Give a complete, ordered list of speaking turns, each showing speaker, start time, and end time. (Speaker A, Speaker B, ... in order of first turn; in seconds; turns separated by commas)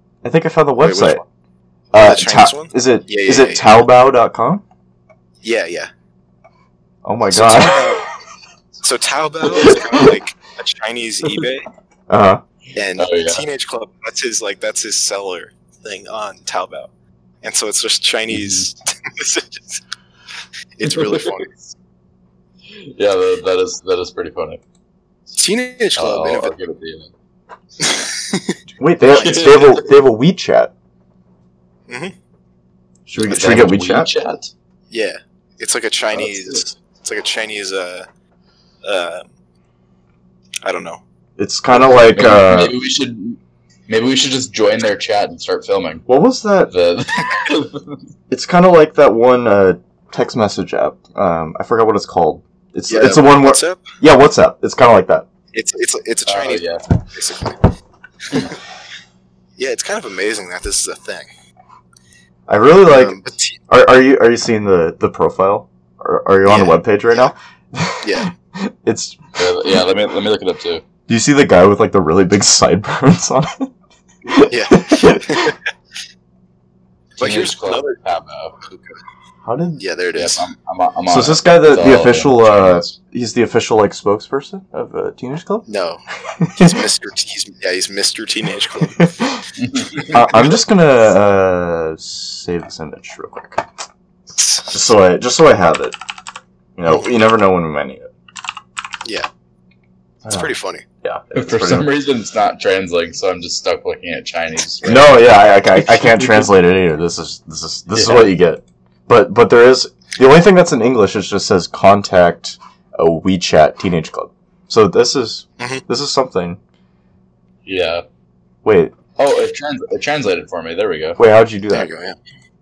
Speaker A: 0.2-1.2, Speaker B: 0.8-1.2, Speaker A: 1.9-4.6, Speaker B: 1.9-3.7, Speaker B: 5.4-5.9, Speaker A: 7.0-7.9, Speaker B: 7.3-8.1, Speaker B: 8.8-11.7, Speaker A: 12.1-12.4, Speaker B: 12.7-16.9, Speaker C: 13.0-13.4, Speaker B: 17.4-19.8, Speaker C: 18.3-18.7, Speaker B: 20.8-21.5, Speaker C: 20.8-21.6, Speaker C: 22.7-24.6, Speaker B: 25.4-26.6, Speaker C: 26.0-27.1, Speaker B: 27.8-29.7, Speaker A: 28.8-30.7, Speaker C: 29.2-29.9, Speaker B: 31.9-32.1, Speaker A: 33.1-34.1, Speaker C: 33.2-34.5, Speaker B: 34.9-38.1, Speaker B: 38.8-39.3, Speaker B: 40.6-41.0, Speaker A: 41.4-42.8, Speaker C: 42.1-46.0, Speaker A: 46.1-46.7, Speaker C: 46.7-48.0, Speaker A: 48.3-55.3, Speaker B: 52.9-53.8, Speaker B: 55.5-57.7, Speaker C: 56.3-56.9, Speaker B: 58.3-58.6, Speaker B: 59.6-61.3, Speaker A: 62.5-69.2, Speaker B: 62.9-63.6, Speaker B: 66.5-66.8, Speaker B: 68.0-68.3, Speaker C: 69.4-70.8, Speaker A: 71.1-73.7, Speaker A: 74.3-75.5, Speaker B: 74.5-75.6, Speaker B: 77.2-78.0, Speaker C: 77.2-78.6, Speaker B: 78.6-79.0, Speaker A: 79.5-79.8, Speaker B: 79.8-80.5, Speaker C: 80.2-82.9, Speaker A: 81.1-85.7, Speaker B: 85.7-86.0, Speaker A: 86.3-86.8, Speaker B: 86.6-89.1, Speaker A: 89.0-89.4, Speaker C: 89.6-90.2, Speaker A: 90.1-93.7, Speaker A: 94.7-96.0, Speaker A: 96.8-98.1, Speaker A: 100.2-100.5, Speaker B: 100.3-100.8, Speaker A: 101.0-101.9, Speaker C: 101.3-106.1, Speaker A: 104.8-116.6, Speaker C: 107.9-108.3, Speaker B: 115.6-115.8, Speaker C: 117.7-118.0, Speaker A: 118.6-119.0, Speaker C: 119.2-121.2, Speaker A: 121.2-121.9, Speaker B: 121.7-122.2